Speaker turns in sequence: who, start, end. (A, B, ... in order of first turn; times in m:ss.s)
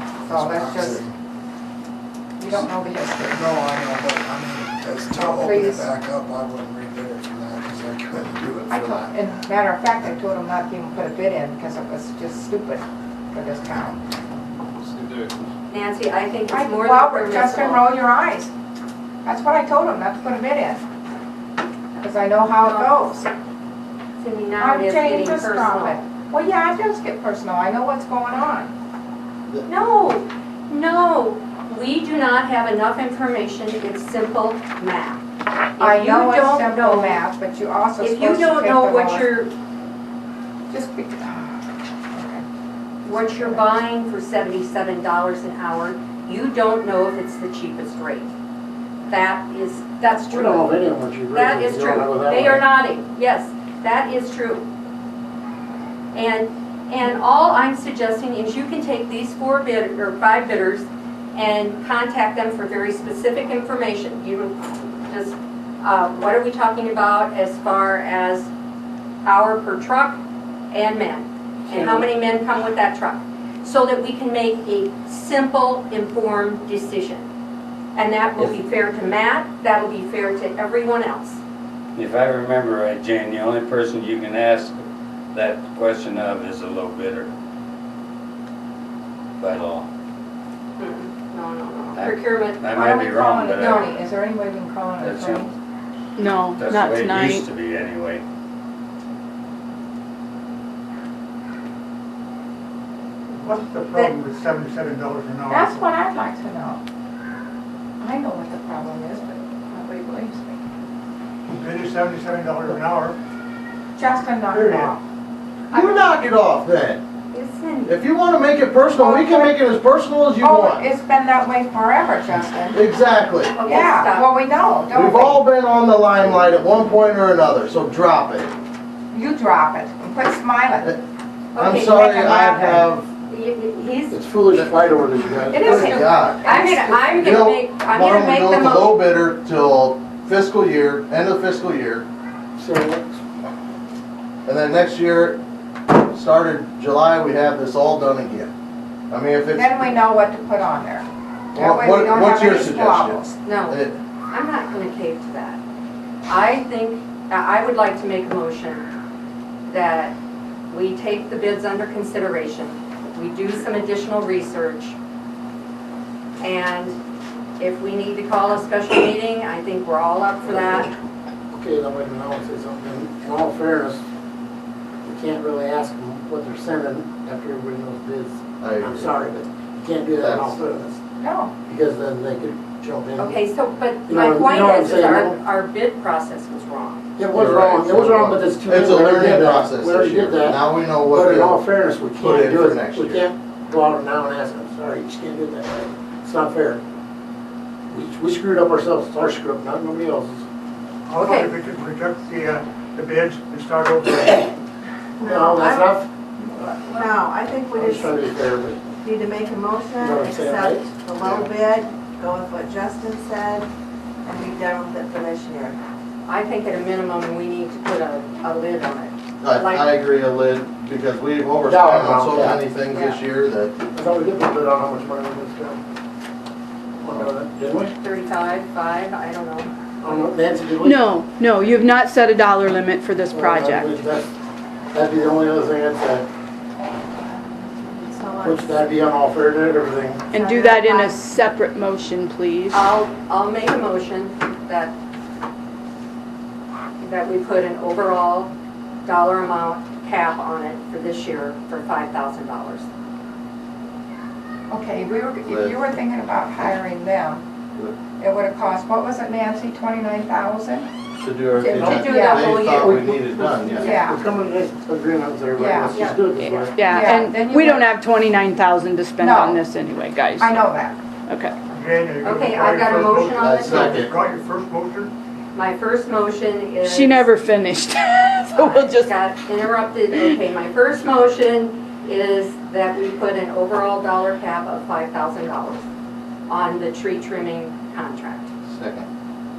0:00.2-0:01.1 A
0:00.2-0:01.0 B
0:02.4-0:03.5 B
0:03.3-0:09.2 A
0:05.1-0:05.9 B
0:08.7-0:14.0 B
0:15.7-0:17.8 C
0:16.5-0:18.5 B
0:19.2-0:20.8 B
0:22.0-0:23.3 B
0:22.6-0:23.1 C
0:24.2-0:26.0 C
0:24.6-0:28.7 B
0:29.7-0:35.2 C
0:35.8-0:37.2 C
0:35.8-0:39.3 B
0:38.0-0:39.5 C
0:40.7-0:41.6 B
0:42.1-0:42.4 B
0:43.0-0:48.3 C
0:43.1-0:43.7 B
0:49.1-0:50.7 C
0:50.3-0:52.6 D
0:51.3-0:54.7 C
0:56.1-1:08.5 C
1:09.2-1:10.2 C
1:10.7-1:17.3 C
1:18.0-1:21.4 C
1:22.0-1:27.3 E
1:29.4-1:29.9 E
1:30.8-1:32.7 C
1:31.9-1:33.9 E
1:32.7-1:35.5 B
1:33.5-1:33.9 C
1:35.0-1:35.5 E
1:36.2-1:37.5 F
1:36.6-1:38.2 E
1:43.3-1:45.8 G
1:45.5-1:46.8 B
1:48.0-1:50.6 B
1:51.5-1:53.2 G
1:54.0-1:55.0 B
1:54.5-1:55.0 G
1:55.7-1:57.0 H
1:55.7-1:56.1 C
1:57.3-1:57.8 C
1:57.8-2:00.8 H
1:58.9-1:59.6 B
2:00.4-2:02.8 B
2:02.7-2:03.6 H
2:03.6-2:04.4 C
2:03.6-2:05.4 B
2:04.9-2:08.5 H
2:09.1-2:11.0 B
2:11.5-2:14.2 C
2:11.6-2:13.1 H
2:11.9-2:12.8 B
2:14.1-2:16.0 D
2:15.4-2:17.2 B
2:15.5-2:16.4 H
2:15.6-2:19.0 C
2:17.1-2:22.1 H
2:22.6-2:23.2 D
2:24.5-2:28.5 H
2:29.1-2:30.0 H
2:29.5-2:33.3 B
2:31.5-2:34.0 H
2:33.4-2:35.6 C
2:36.3-2:38.9 C
2:39.7-2:40.2 C
2:40.7-2:45.0 C
2:46.4-2:47.0 C
2:47.6-2:50.9 C
2:50.5-2:50.9 D
2:51.5-2:54.0 D
2:55.0-3:01.0 D
2:58.6-2:59.1 H
3:00.2-3:00.6 H
3:01.2-3:01.6 B
3:01.6-3:03.4 D
3:03.2-3:07.0 C
3:04.1-3:05.4 D
3:07.2-3:16.8 D
3:07.3-3:11.6 H
3:12.2-3:13.3 H
3:17.9-3:20.5 D
3:21.1-3:24.5 G
3:21.2-3:21.5 I
3:25.2-3:26.0 I
3:25.2-3:26.1 D
3:26.6-3:28.3 I
3:27.8-3:28.8 D
3:29.0-3:33.7 I
3:30.0-3:30.9 D
3:31.2-3:31.5 H
3:34.2-3:35.8 I
3:36.3-3:39.9 C
3:39.4-3:43.8 H
3:41.6-3:42.6 D
3:42.9-3:43.2 C
3:43.9-3:45.8 D
3:47.0-3:47.9 D
3:48.0-3:49.7 C
3:50.0-3:51.0 D
3:50.8-3:54.0 F
3:53.3-3:54.3 D
3:54.9-3:56.3 D
3:58.0-3:58.8 I
3:58.4-4:00.3 D
4:00.3-4:02.8 F
4:00.4-4:01.1 I
4:02.7-4:04.9 C
4:07.0-4:08.5 C
4:09.0-4:12.9 C
4:14.7-4:17.4 B
4:15.5-4:15.8 H
4:18.2-4:20.9 B
4:21.2-4:23.9 H
4:21.6-4:23.0 C
4:21.7-4:26.9 D
4:21.9-4:22.6 B
4:23.7-4:24.2 B
4:25.5-4:26.0 B
4:25.9-4:26.2 C
4:26.3-4:30.6 F
4:26.8-4:27.9 B
4:29.2-4:29.6 B
4:30.4-4:31.0 B
4:31.3-4:31.6 F
4:31.7-4:35.1 G
4:32.2-4:33.9 C
4:33.4-4:34.1 H
4:35.6-4:37.3 C
4:36.8-4:39.2 F
4:38.6-4:45.8 C
4:46.5-4:48.5 C
4:48.7-4:49.1 H